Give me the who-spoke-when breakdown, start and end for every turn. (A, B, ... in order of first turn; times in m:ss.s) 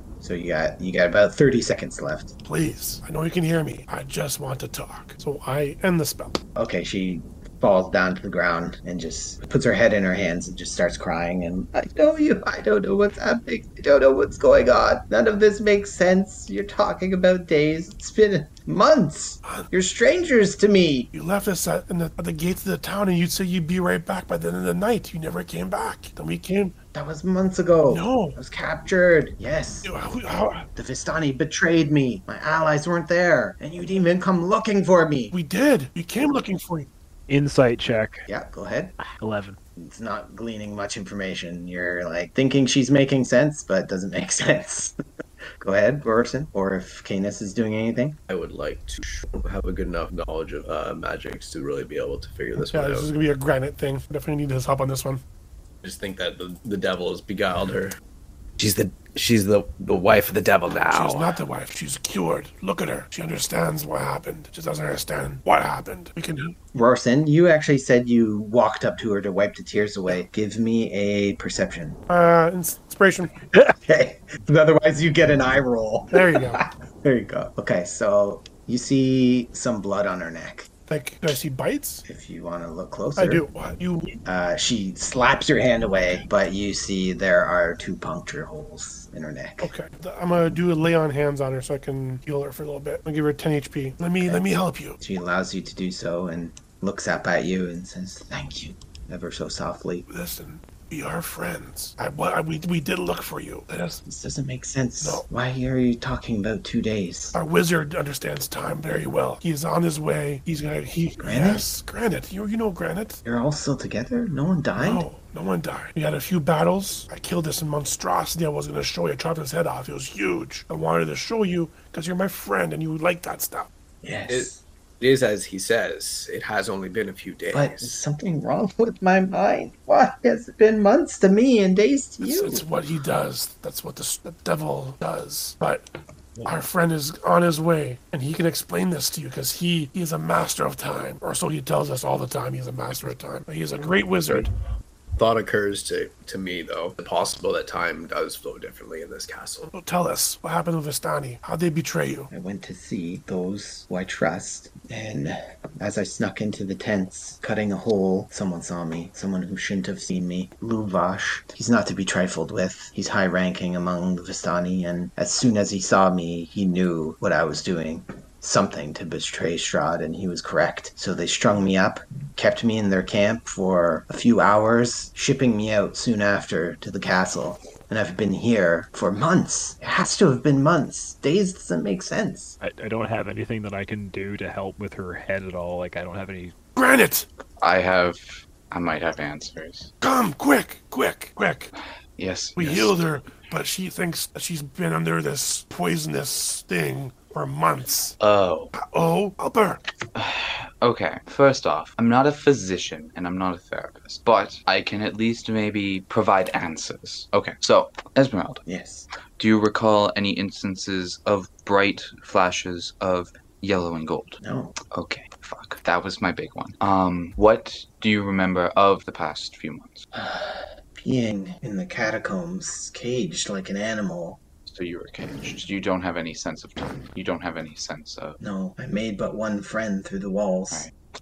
0:00.2-0:02.3 A
0:02.4-0:06.4 B
0:06.5-0:21.1 A
0:21.1-0:26.8 B
0:26.9-0:29.9 A
0:27.9-0:28.4 B
0:29.8-0:30.6 B
0:30.8-0:35.3 A
0:35.3-0:36.9 B
0:37.3-0:38.2 C
0:38.3-0:39.0 A
0:39.0-0:39.6 C
0:39.8-0:44.9 A
0:45.6-0:48.2 A
0:48.3-0:53.1 D
0:52.6-0:55.2 B
0:55.8-0:57.9 D
0:58.6-1:01.4 D
1:00.9-1:06.5 B
1:06.7-1:12.0 A
1:12.1-1:13.4 B
1:13.8-1:20.7 A
1:16.1-1:16.6 B
1:20.9-1:22.0 B
1:22.0-1:23.4 A
1:23.2-1:24.2 B
1:24.2-1:29.7 A
1:29.6-1:35.0 B
1:35.0-1:40.0 A
1:40.1-1:44.0 B
1:44.0-1:47.4 A
1:45.0-1:45.2 B
1:47.3-1:53.2 B
1:51.2-1:51.6 A
1:53.2-1:55.0 A
1:54.8-2:03.7 B
2:04.0-2:04.6 A
2:04.3-2:07.9 D
2:07.5-2:12.6 A
2:12.2-2:15.9 B
2:16.4-2:24.5 B
2:25.2-2:29.7 D
2:29.7-2:32.3 B
2:32.3-3:02.6 A
3:02.6-3:06.5 C
3:06.8-3:07.3 B
3:07.6-3:09.9 E
3:10.0-3:11.7 B
3:12.2-3:13.0 E
3:12.6-3:18.1 B
3:18.2-3:18.7 E
3:18.8-3:19.8 B
3:20.1-3:28.6 E
3:28.6-3:29.1 A
3:29.4-3:34.4 E
3:34.4-3:34.8 A
3:34.9-3:40.0 E
3:40.1-3:44.4 A
3:44.6-3:48.4 E
3:48.4-3:50.9 A